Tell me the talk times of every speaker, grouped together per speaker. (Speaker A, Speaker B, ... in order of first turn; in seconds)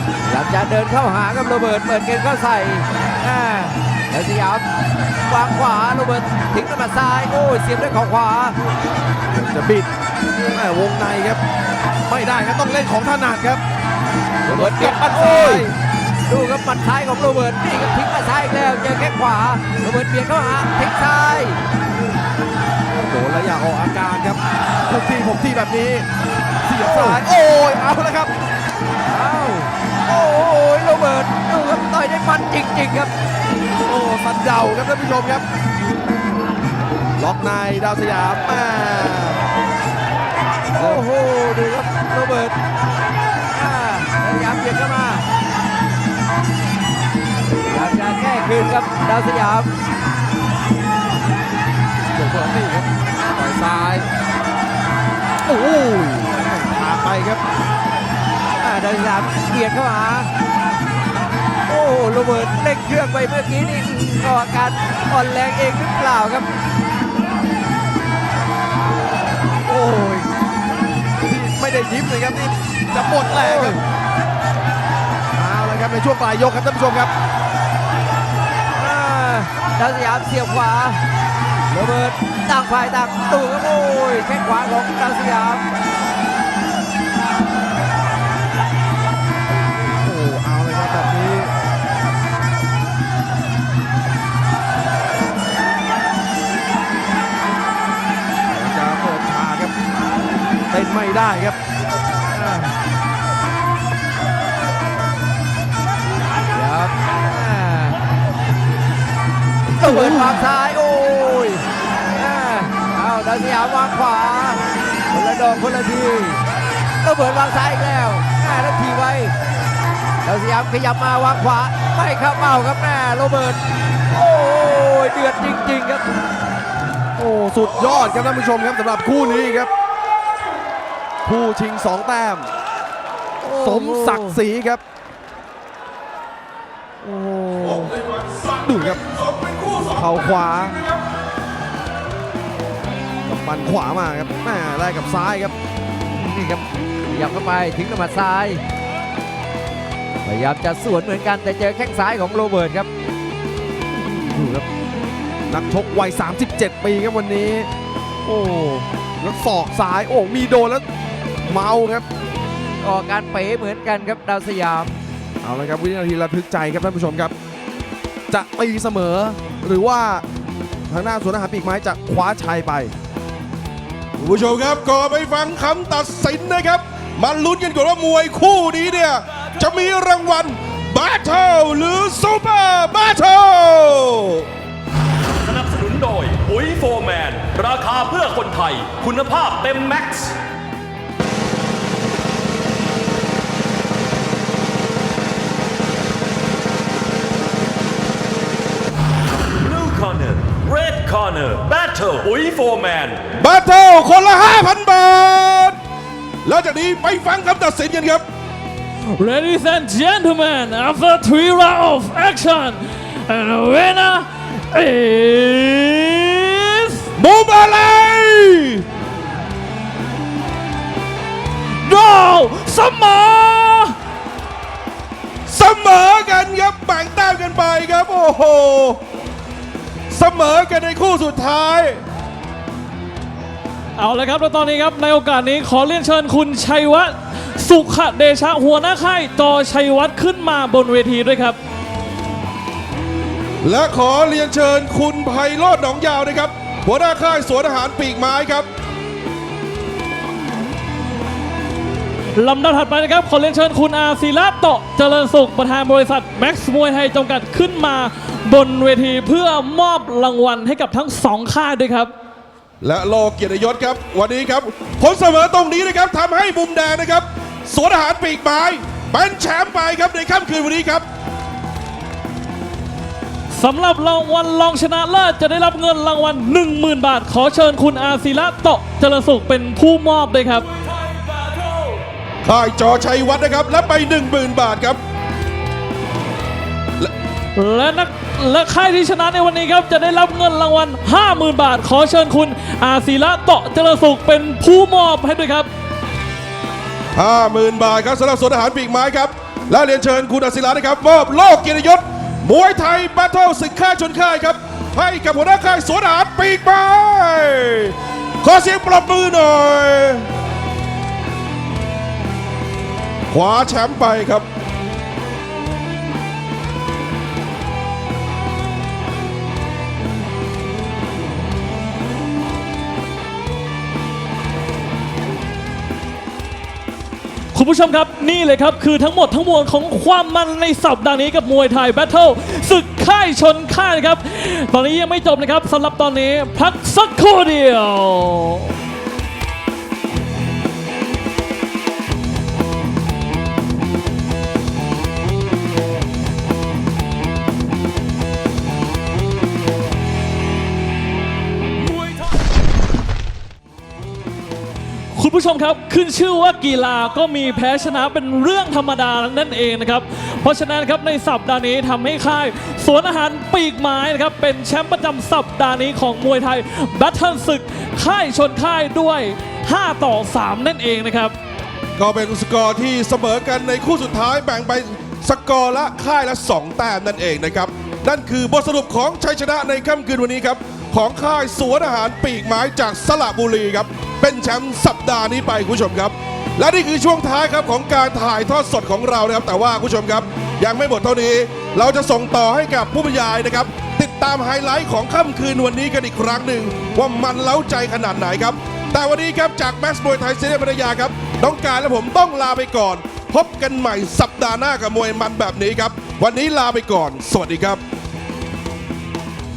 Speaker A: 0.2-4.6, 5.2-8.6, 14.5-15.7, 16.3-21.6, 26.8-27.2, 29.1-33.1, 40.8-42.6, 43.5-45.3, 47.7-49.7, 58.6-60.3, 61.7-66.5, 73.4-73.8, 78.8-81.0, 81.7-85.7, 102.3-102.7, 106.5-108.0, 109.8-116.4, 117.0-119.3, 120.2-126.1, 133.4-134.4, 137.1-137.9, 146.1-148.6, 150.2-152.9, 162.5-165.0
Speaker B: 9.3-11.4, 12.1-13.6, 14.4-15.7, 23.1-26.1, 26.6-28.3, 33.9-35.5, 37.2-39.5, 40.8-41.1, 52.1-54.1, 55.5-57.4, 69.7-70.3, 71.3-73.8, 75.3-77.1, 90.0-91.5, 98.5-99.7, 100.7-101.6, 127.2-129.7, 131.2-132.5, 133.5-134.8, 137.1-137.8, 138.6-139.0, 139.9-140.8, 143.3-145.6, 154.1-154.7, 155.5-157.7, 158.2-160.8, 161.5-162.1, 165.4-167.3, 168.3-170.2, 170.9-172.9
Speaker C: 138.1-139.9, 174.2-184.5, 203.4-205.8, 206.4-208.2, 217.2-218.9, 225.5-229.0, 230.1-232.0, 243.6-248.7, 262.8-271.1, 282.4-285.0, 297.2-310.3, 313.3-314.4, 372.0-407.8
Speaker D: 185.4-190.4, 199.6-203.3, 280.7-282.1, 351.8-352.4
Speaker E: 209.1-217.1, 221.8-223.9, 234.0-241.6, 252.4-262.1, 273.5-280.7, 287.6-295.7, 327.5-338.7, 355.1-371.4